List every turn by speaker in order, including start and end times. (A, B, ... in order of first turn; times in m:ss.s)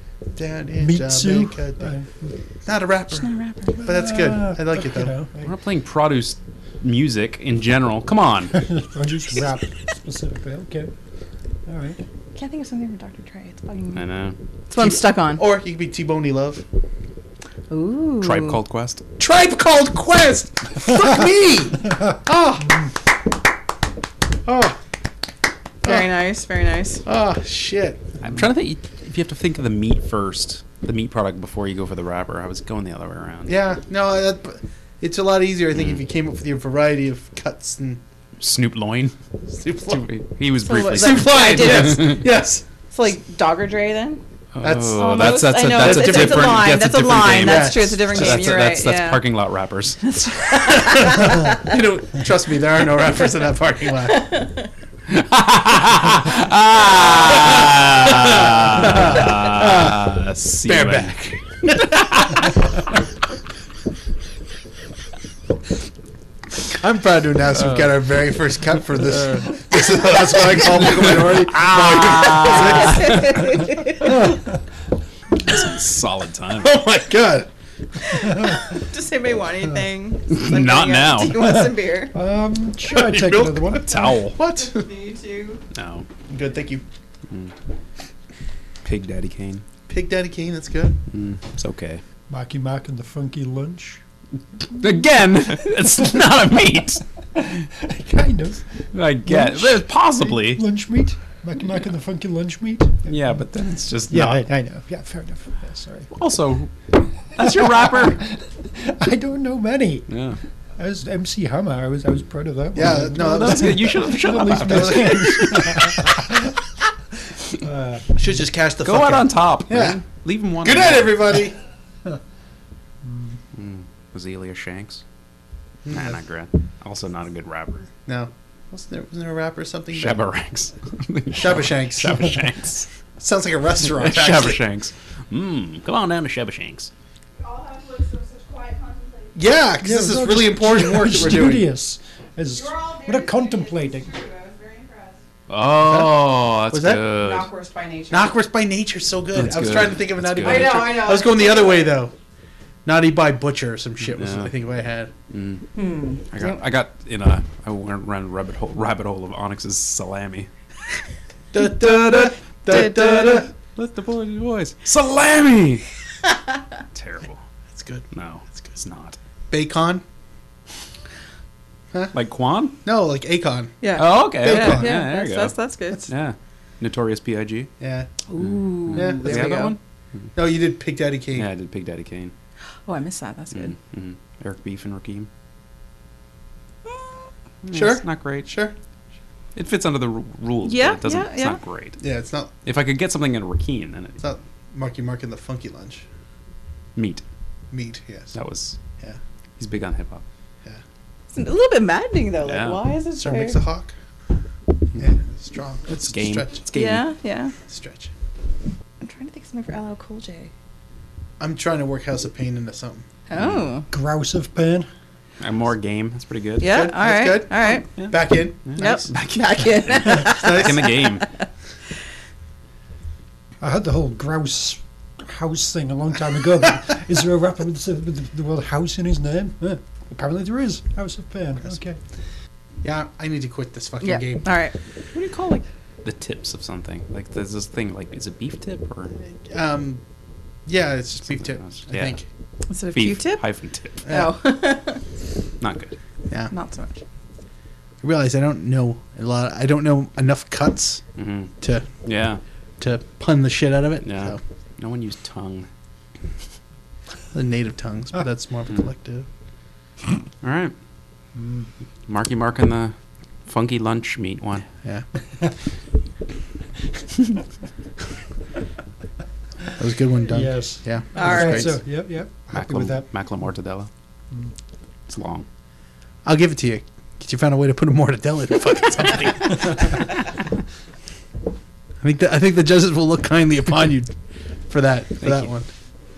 0:00.4-0:01.9 A
0:00.8-0:02.1 B
0:02.6-0:03.3 A
0:03.2-0:03.8 C
0:03.8-0:05.5 B
0:03.8-0:05.2 A
0:05.4-0:08.5 D
0:08.6-0:10.9 B
0:11.7-0:12.0 B
0:12.4-0:14.0 C
0:14.0-0:14.4 D
0:14.7-0:15.4 C
0:14.8-0:16.6 A
0:17.7-0:18.6 C
0:18.2-0:19.0 D
0:19.2-0:22.8 A
0:24.4-0:24.8 A
0:25.8-0:27.0 C
0:27.1-0:28.0 A
0:28.2-0:33.6 D
0:33.5-0:38.0 A
0:38.4-0:39.2 D
0:39.5-0:40.0 A
0:39.9-0:42.2 D
0:40.6-0:42.3 C
0:40.8-0:42.6 A
0:42.9-0:44.2 C
0:44.6-0:50.1 D
0:44.6-0:46.8 A
0:45.0-0:49.2 C
0:47.4-0:48.6 A
0:50.1-0:51.4 C
0:50.6-0:54.4 A
0:54.1-0:54.6 C
0:55.1-1:01.3 D
0:57.6-1:00.1 A
1:00.7-1:02.4 A
1:06.7-1:13.4 A
1:07.6-1:07.9 D
1:10.6-1:13.6 D
1:12.9-1:14.2 C
1:15.4-1:16.7 D
1:16.6-1:17.5 A
1:18.0-1:22.1 C
1:20.3-1:21.5 D
1:22.1-1:24.0 B
1:22.8-1:24.8 A
1:23.9-1:24.4 D
1:24.4-1:25.6 C
1:25.7-1:26.1 D
1:26.3-1:26.8 A
1:28.8-1:29.6 D
1:29.9-1:31.0 A
1:31.1-1:32.0 D
1:32.3-1:34.0 B
1:34.7-1:37.0 D
1:37.4-1:38.6 B
1:38.9-1:40.6 D
1:39.2-1:43.3 B
1:43.1-1:44.4 D
1:44.1-1:46.1 B
1:46.1-1:48.2 D
1:47.4-1:50.1 B
1:50.1-1:50.4 D
1:50.8-1:56.3 B
1:52.8-1:54.1 A
1:53.1-1:56.1 D
1:54.7-1:55.3 A
1:57.6-1:58.2 B
1:58.2-2:00.0 A
1:58.8-2:01.3 D
2:00.6-2:01.6 A
2:03.0-2:03.4 B
2:03.5-2:05.0 D
2:05.8-2:06.2 A
2:05.9-2:07.9 D
2:08.1-2:10.2 A
2:09.9-2:12.9 D
2:11.3-2:12.4 A
2:13.2-2:14.6 A
2:13.8-2:16.9 D
2:17.4-2:19.3 C
2:19.4-2:21.7 A
2:19.8-2:24.2 B
2:22.8-2:25.2 C
2:25.5-2:27.5 D
2:25.8-2:27.1 A
2:27.2-2:28.4 C
2:28.1-2:32.1 A
2:29.3-2:31.1 D
2:30.4-2:32.0 C
2:32.8-2:35.1 A
2:34.1-2:34.5 D
2:35.3-2:35.7 D
2:35.8-2:36.5 C
2:36.3-2:40.5 D
2:41.5-2:43.5 A
2:41.8-2:45.8 D
2:42.7-2:43.4 C
2:46.9-2:47.4 D
2:47.7-2:48.1 A
2:48.1-2:49.2 D
2:49.5-2:50.0 A
2:52.1-2:52.8 D
2:52.8-2:55.0 A
2:53.8-2:56.1 C
2:54.0-2:55.6 D
2:56.1-2:57.7 D
2:57.8-2:58.1 A
2:58.3-2:59.8 C
2:58.4-2:59.8 D
2:58.9-2:59.7 A
3:00.4-3:01.5 A
3:01.4-3:02.3 D
3:02.9-3:03.7 C
3:03.5-3:05.3 D
3:07.6-3:08.5 D
3:07.7-3:08.8 A
3:09.6-3:12.0 D
3:10.6-3:11.6 C
3:12.0-3:12.5 A
3:12.6-3:14.2 D
3:14.2-3:16.0 A
3:17.0-3:17.2 D
3:17.7-3:18.4 A
3:18.3-3:18.8 D
3:19.6-3:20.2 D
3:21.3-3:23.6 C
3:22.4-3:22.8 D
3:23.2-3:23.9 A
3:25.0-3:26.8 A
3:25.9-3:27.0 D
3:26.7-3:27.5 C
3:27.7-3:28.1 A
3:29.0-3:30.5 C
3:31.4-3:33.0 A
3:33.3-3:33.9 C
3:33.4-3:33.7 D
3:33.9-3:34.9 B
3:35.4-3:36.7 D
3:36.6-3:38.0 C
3:36.6-3:39.1 A
3:38.6-3:41.3 D
3:38.8-3:41.3 C
3:40.1-3:40.9 A
3:43.6-3:52.0 B
3:52.8-3:54.5 A
3:54.0-3:54.7 C
3:55.1-3:59.1 D
3:59.2-4:00.0 A
4:00.7-4:02.3 A
4:01.5-4:02.2 D
4:02.7-4:03.4 C
4:02.9-4:04.0 D
4:04.1-4:04.3 A
4:04.1-4:05.0 C
4:05.6-4:06.0 D
4:06.5-4:07.0 C
4:08.0-4:11.0 A
4:11.2-4:12.4 D
4:11.6-4:11.9 A
4:12.8-4:14.4 A
4:14.0-4:15.7 D
4:17.3-4:19.3 A
4:20.4-4:20.8 D
4:21.4-4:21.7 B
4:22.1-4:23.0 D
4:23.5-4:24.7 D
4:29.8-4:31.8 A
4:30.3-4:33.1 B
4:31.2-4:31.5 C
4:32.5-4:33.9 D
4:35.1-4:35.5 D
4:36.2-4:39.8 A
4:42.0-4:44.1 A
4:44.7-4:45.7 A
4:45.2-4:45.5 D